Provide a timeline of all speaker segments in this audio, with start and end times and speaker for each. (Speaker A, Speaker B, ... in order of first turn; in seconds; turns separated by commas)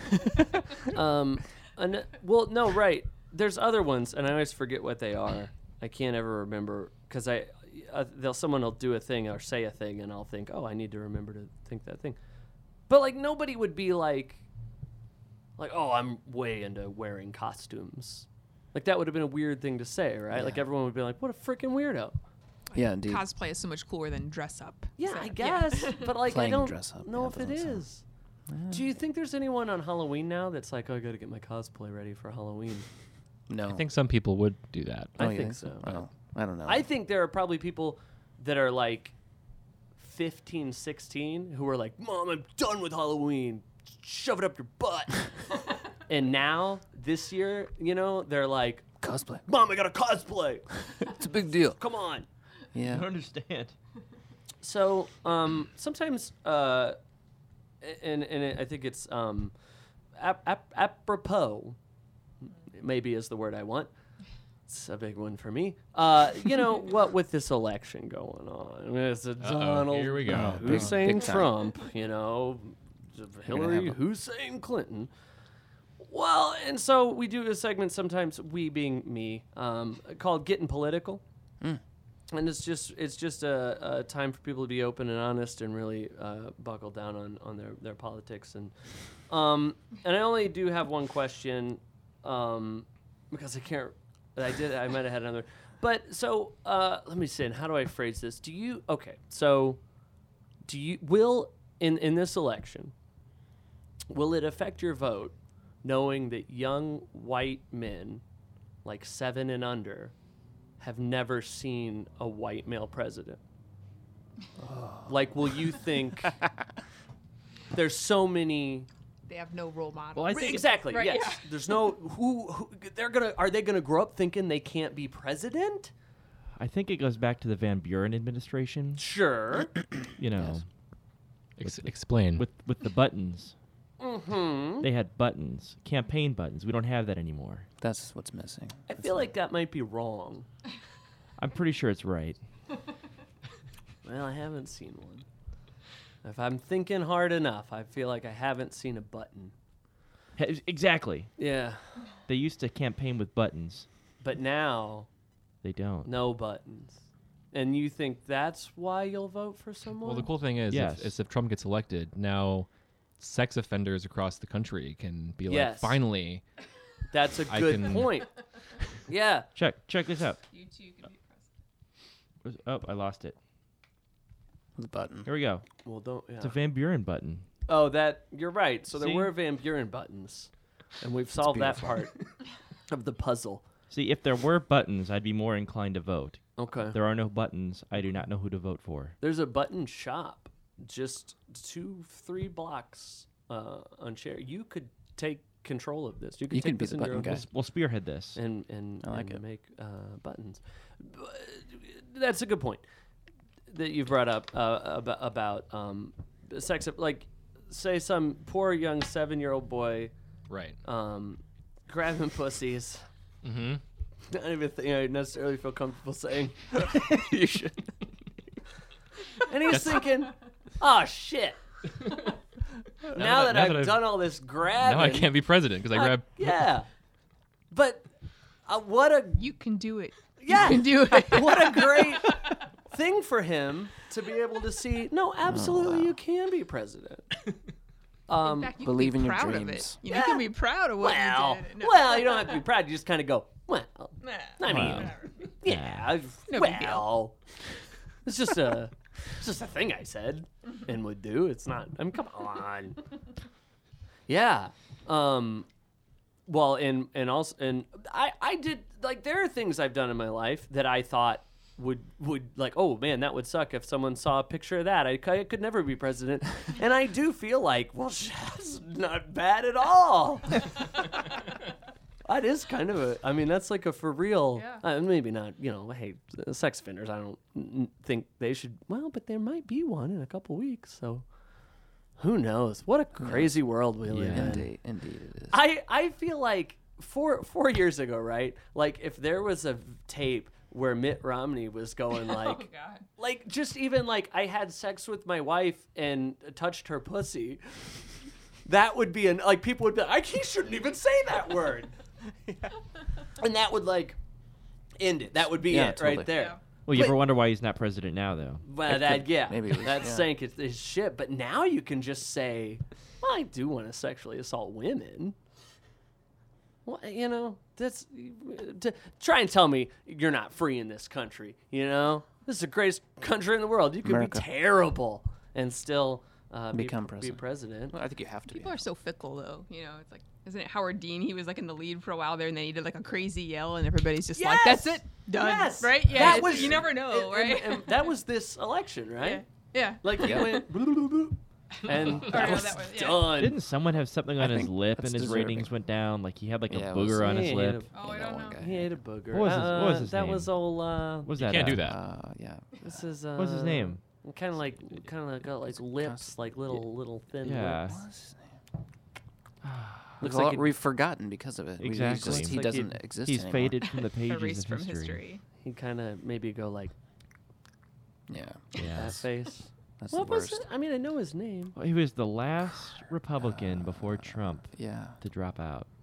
Speaker A: 0.8-12.2, Speaker A: 12.9-14.4, Speaker A: 15.6-22.2, Speaker B: 20.3-20.6, Speaker C: 22.7-26.1, Speaker B: 22.7-23.3, Speaker A: 25.0-28.0, Speaker B: 26.2-27.9, Speaker B: 28.5-28.8, Speaker A: 28.7-32.9, Speaker B: 33.5-33.9, Speaker D: 33.6-35.2, Speaker A: 35.2-36.0, Speaker B: 35.2-36.9, Speaker A: 36.6-39.1, Speaker A: 40.0-45.3, Speaker A: 46.0-48.9, Speaker B: 49.0-49.4, Speaker A: 49.5-51.0, Speaker B: 51.0-51.8, Speaker A: 51.8-52.3, Speaker B: 52.7-53.1, Speaker E: 52.8-53.7, Speaker A: 54.6-57.0, Speaker A: 57.8-59.5, Speaker A: 60.1-61.8, Speaker A: 62.5-63.9, Speaker A: 64.7-75.1, Speaker D: 69.4-71.1, Speaker B: 70.2-71.5, Speaker B: 73.5-74.0, Speaker A: 76.0-81.2, Speaker A: 82.3-88.8, Speaker A: 89.3-99.8, Speaker A: 100.7-102.9, Speaker A: 104.1-108.2, Speaker A: 108.8-110.1, Speaker A: 110.8-113.4, Speaker B: 114.6-115.1, Speaker A: 115.0-116.4, Speaker A: 117.7-118.9, Speaker C: 119.3-121.7, Speaker E: 120.2-120.6, Speaker A: 120.2-125.9, Speaker E: 126.6-129.0, Speaker A: 129.0-129.8, Speaker E: 130.2-130.7, Speaker B: 130.3-130.6, Speaker D: 131.6-132.4, Speaker E: 131.6-133.5, Speaker A: 134.0-134.9, Speaker E: 134.8-137.7, Speaker B: 137.8-139.3, Speaker A: 138.9-140.5, Speaker E: 141.4-142.4, Speaker A: 144.0-145.2, Speaker A: 146.2-149.5, Speaker E: 150.4-151.3, Speaker A: 151.4-152.0, Speaker E: 152.3-153.9, Speaker A: 154.2-155.1, Speaker E: 155.6-156.1, Speaker A: 156.0-157.0, Speaker A: 157.5-160.3, Speaker D: 160.0-162.7, Speaker E: 160.7-161.1, Speaker D: 163.2-166.4, Speaker A: 165.5-166.0, Speaker A: 167.1-168.3, Speaker D: 167.5-168.2, Speaker A: 169.1-169.5, Speaker E: 169.5-170.4, Speaker C: 170.5-171.4, Speaker E: 172.4-173.3, Speaker B: 174.8-175.3, Speaker E: 175.2-175.6, Speaker A: 175.8-176.6, Speaker E: 176.4-177.4, Speaker A: 177.7-182.2, Speaker E: 178.9-179.3, Speaker B: 181.4-182.0, Speaker A: 182.9-183.6, Speaker E: 183.9-189.2, Speaker A: 186.6-187.0, Speaker A: 189.2-197.4, Speaker B: 196.5-197.4, Speaker E: 197.2-198.4, Speaker A: 198.3-202.8, Speaker B: 199.0-199.4, Speaker A: 203.7-210.1, Speaker D: 210.5-210.8, Speaker A: 210.8-213.0, Speaker D: 213.4-213.8, Speaker A: 214.3-217.0, Speaker A: 219.4-221.6, Speaker D: 219.7-220.0, Speaker D: 223.0-226.7, Speaker A: 223.1-226.9, Speaker A: 227.7-228.1, Speaker A: 228.7-229.5, Speaker C: 229.4-232.6, Speaker A: 230.4-237.4, Speaker B: 235.4-236.2, Speaker A: 238.3-238.7, Speaker C: 238.4-242.6, Speaker B: 238.8-240.0, Speaker A: 240.1-247.3, Speaker C: 244.2-245.5, Speaker E: 244.7-246.2, Speaker C: 246.5-247.2, Speaker A: 248.2-253.0, Speaker A: 254.3-255.7, Speaker A: 256.5-270.7, Speaker A: 272.3-281.2, Speaker C: 274.6-274.8, Speaker A: 282.2-284.8, Speaker B: 283.2-283.6, Speaker E: 284.1-284.6, Speaker B: 284.3-285.6, Speaker A: 285.5-297.8, Speaker C: 292.3-293.1, Speaker A: 298.6-302.7, Speaker A: 303.3-304.2, Speaker A: 305.0-307.2, Speaker B: 305.6-306.3, Speaker C: 306.2-306.6, Speaker E: 306.8-308.6, Speaker A: 308.6-315.4, Speaker B: 308.9-310.3, Speaker A: 316.8-327.9, Speaker B: 324.0-324.4, Speaker B: 326.7-328.8, Speaker C: 328.5-338.1, Speaker A: 334.3-343.6, Speaker C: 339.2-340.6, Speaker B: 340.2-340.5, Speaker C: 342.1-343.4, Speaker E: 343.3-347.9, Speaker B: 344.4-345.7, Speaker B: 346.7-349.0, Speaker A: 347.2-347.9, Speaker C: 347.9-348.6, Speaker A: 348.6-351.3, Speaker E: 349.3-350.6, Speaker E: 351.2-351.9, Speaker D: 351.4-352.0, Speaker B: 351.8-353.0, Speaker A: 352.8-357.8, Speaker E: 353.4-354.0, Speaker B: 355.7-356.5, Speaker E: 357.4-358.0, Speaker B: 357.8-358.5, Speaker E: 359.6-360.2, Speaker A: 360.2-360.7, Speaker B: 360.2-363.9, Speaker E: 361.8-365.2, Speaker A: 362.1-363.0, Speaker C: 364.1-365.4, Speaker A: 365.6-366.9, Speaker B: 368.3-369.2, Speaker E: 368.8-369.2, Speaker A: 368.9-371.8, Speaker B: 370.0-370.6, Speaker E: 371.7-375.9, Speaker B: 373.4-375.2